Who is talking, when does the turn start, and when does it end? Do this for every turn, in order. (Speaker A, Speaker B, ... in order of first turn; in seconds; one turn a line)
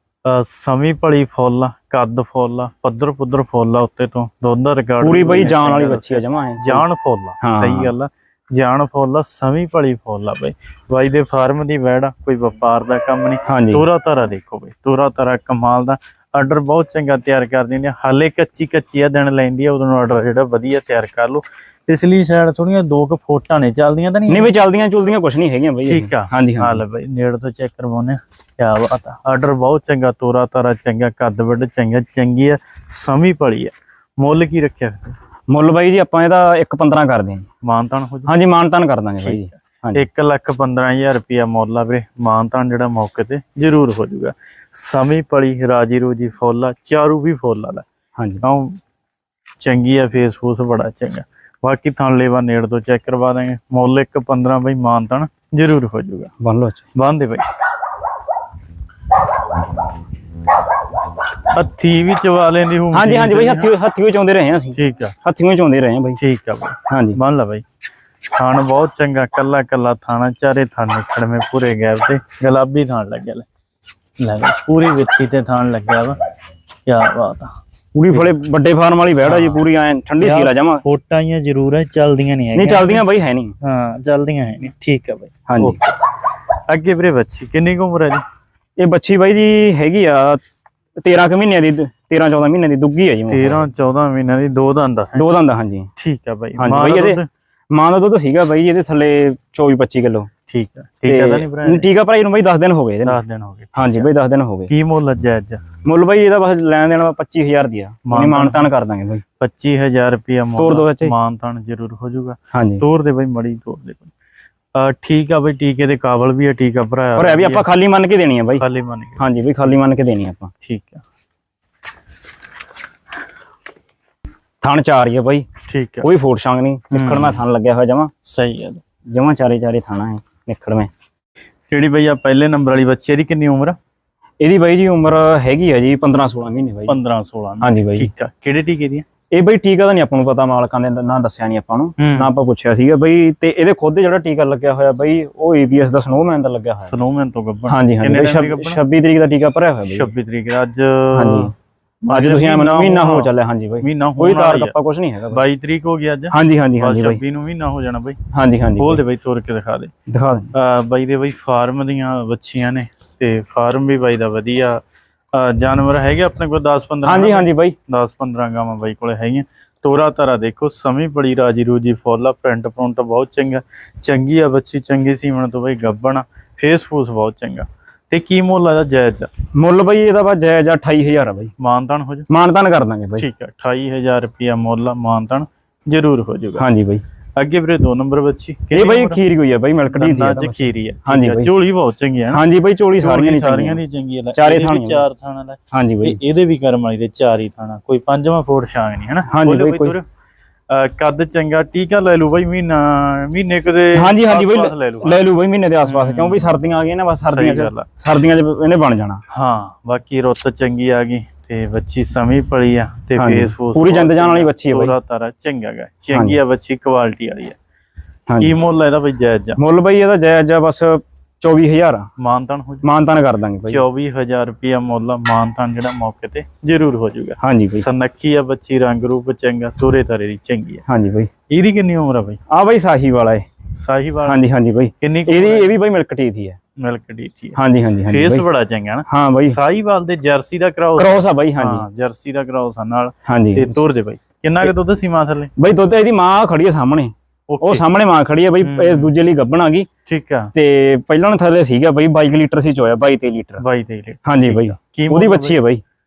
Speaker A: 0.2-24.5
Speaker B: 5.0-6.8
Speaker B: 7.4-7.9
Speaker B: 13.5-13.8
Speaker B: 24.3-26.8
Speaker A: 25.8-35.2
Speaker B: 35.5-37.5
Speaker A: 37.6-38.3
Speaker B: 38.2-40.0
Speaker A: 39.2-47.8
Speaker B: 48.2-48.4
Speaker A: 48.4-48.8
Speaker A: 49.6-56.3
Speaker B: 56.4-56.8
Speaker A: 56.9-57.4
Speaker A: 61.5-63.7
Speaker B: 62.9-66.2
Speaker A: 64.7-65.1
Speaker A: 66.2-67.6
Speaker B: 66.9-67.2
Speaker A: 68.3-73.5
Speaker A: 74.2-76.2
Speaker A: 76.9-77.5
Speaker B: 78.0-80.8
Speaker A: 79.2-79.6
Speaker A: 80.2-83.0
Speaker B: 82.5-83.5
Speaker A: 83.6-86.0
Speaker B: 85.5-85.8
Speaker A: 86.7-88.2
Speaker B: 88.8-90.4
Speaker B: 91.0-93.6
Speaker A: 93.3-95.3
Speaker B: 95.2-95.9
Speaker A: 96.0-97.3
Speaker B: 96.6-97.2
Speaker B: 97.7-100.3
Speaker A: 100.5-101.9
Speaker B: 101.0-103.2
Speaker A: 103.0-104.1
Speaker B: 103.8-104.7
Speaker A: 104.7-105.6
Speaker B: 105.8-109.2
Speaker A: 108.1-108.7
Speaker A: 109.4-114.1
Speaker B: 110.6-111.1
Speaker B: 112.5-112.8
Speaker A: 114.8-117.7
Speaker B: 117.2-118.6
Speaker A: 118.6-119.2
Speaker B: 119.2-120.5
Speaker A: 120.6-121.0
Speaker B: 124.6-125.5
Speaker A: 125.6-126.1
Speaker B: 126.0-128.1
Speaker A: 126.9-127.4
Speaker A: 128.2-128.8
Speaker B: 129.1-130.9
Speaker A: 131.7-133.8
Speaker B: 134.4-137.0
Speaker A: 136.9-139.1
Speaker B: 137.6-138.1
Speaker B: 139.3-146.9
Speaker A: 142.0-142.3
Speaker A: 146.8-148.8
Speaker B: 147.7-150.1
Speaker A: 149.8-151.5
Speaker B: 151.1-151.5
Speaker A: 152.0-153.3
Speaker B: 152.1-155.4
Speaker A: 153.8-154.7
Speaker A: 155.3-158.2
Speaker B: 156.3-157.2
Speaker B: 158.3-159.0
Speaker A: 158.8-159.9
Speaker B: 160.1-160.5
Speaker A: 160.5-164.8
Speaker A: 165.3-179.3
Speaker B: 167.0-167.8
Speaker B: 179.6-181.5
Speaker A: 181.6-182.3
Speaker B: 182.3-183.3
Speaker A: 183.2-186.6
Speaker B: 186.6-187.0
Speaker A: 187.4-189.2
Speaker B: 188.7-191.5
Speaker A: 189.9-192.4
Speaker B: 192.3-193.8
Speaker A: 193.0-200.1
Speaker B: 194.3-195.1
Speaker B: 195.7-196.2
Speaker B: 199.3-199.9
Speaker A: 200.7-205.2
Speaker B: 203.9-209.2
Speaker A: 205.8-206.6
Speaker A: 207.2-207.9
Speaker A: 209.3-217.6
Speaker B: 213.2-214.9
Speaker B: 216.1-216.4
Speaker B: 218.3-218.6
Speaker A: 218.4-219.6
Speaker B: 219.6-222.1
Speaker A: 222.2-222.9
Speaker B: 222.8-223.8
Speaker A: 223.7-230.8
Speaker B: 227.4-227.9
Speaker B: 230.9-231.3
Speaker A: 231.5-232.4
Speaker B: 232.5-233.5
Speaker A: 233.7-234.4
Speaker B: 234.2-236.6
Speaker A: 235.0-235.8
Speaker A: 236.8-245.5
Speaker B: 237.6-238.4
Speaker B: 239.1-239.6
Speaker B: 241.0-241.8
Speaker B: 243.2-243.8
Speaker B: 245.6-249.9
Speaker A: 247.5-247.9
Speaker A: 248.6-249.1
Speaker A: 250.1-250.5
Speaker B: 250.6-253.6
Speaker A: 253.6-255.6
Speaker B: 254.2-255.8